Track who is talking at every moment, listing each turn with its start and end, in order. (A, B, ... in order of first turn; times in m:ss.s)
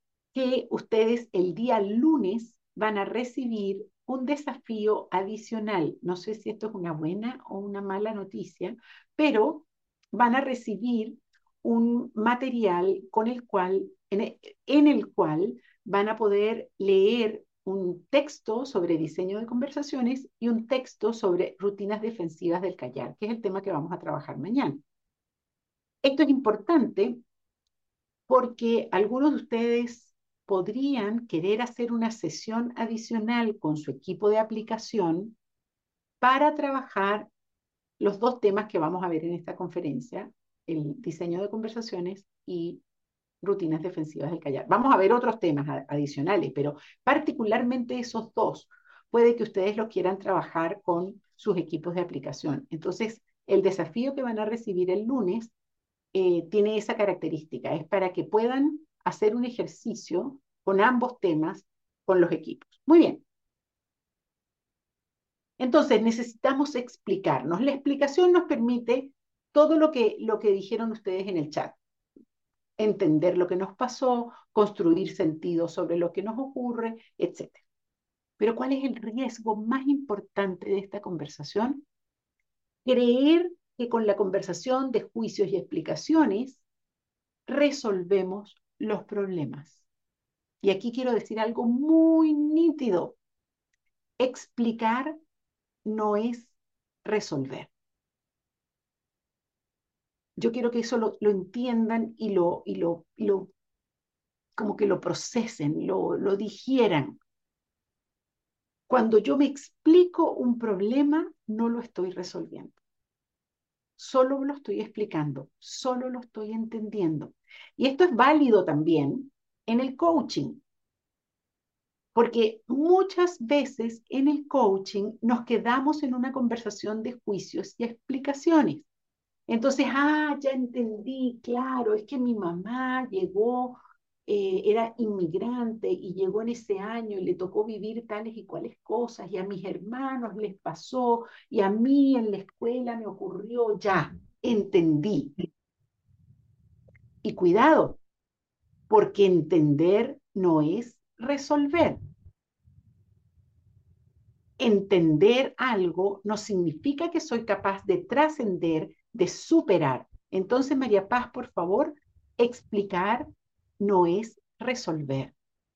0:00.3-0:24.8 A
0:26.0-0:27.2 A
0:28.3-0:35.4 A
0:36.2-0:37.3 A
0:38.0-0:42.8 A
0:43.4-0:55.5 A
0:56.1-1:03.2 A
1:05.6-1:11.8 A
1:12.8-1:17.6 A
1:18.4-1:21.8 A
1:22.8-1:26.6 A
1:27.5-1:29.8 A
1:30.6-1:33.2 A
1:34.2-1:35.2 A
1:35.8-1:37.7 A
1:40.4-1:43.5 A
1:44.6-1:47.2 A
1:48.9-1:52.8 A
1:54.0-2:00.6 A
2:02.2-2:08.9 A
2:09.5-2:25.4 A
2:27.2-2:28.0 A
2:28.9-2:32.0 A
2:34.6-2:43.3 A
2:43.8-2:45.3 A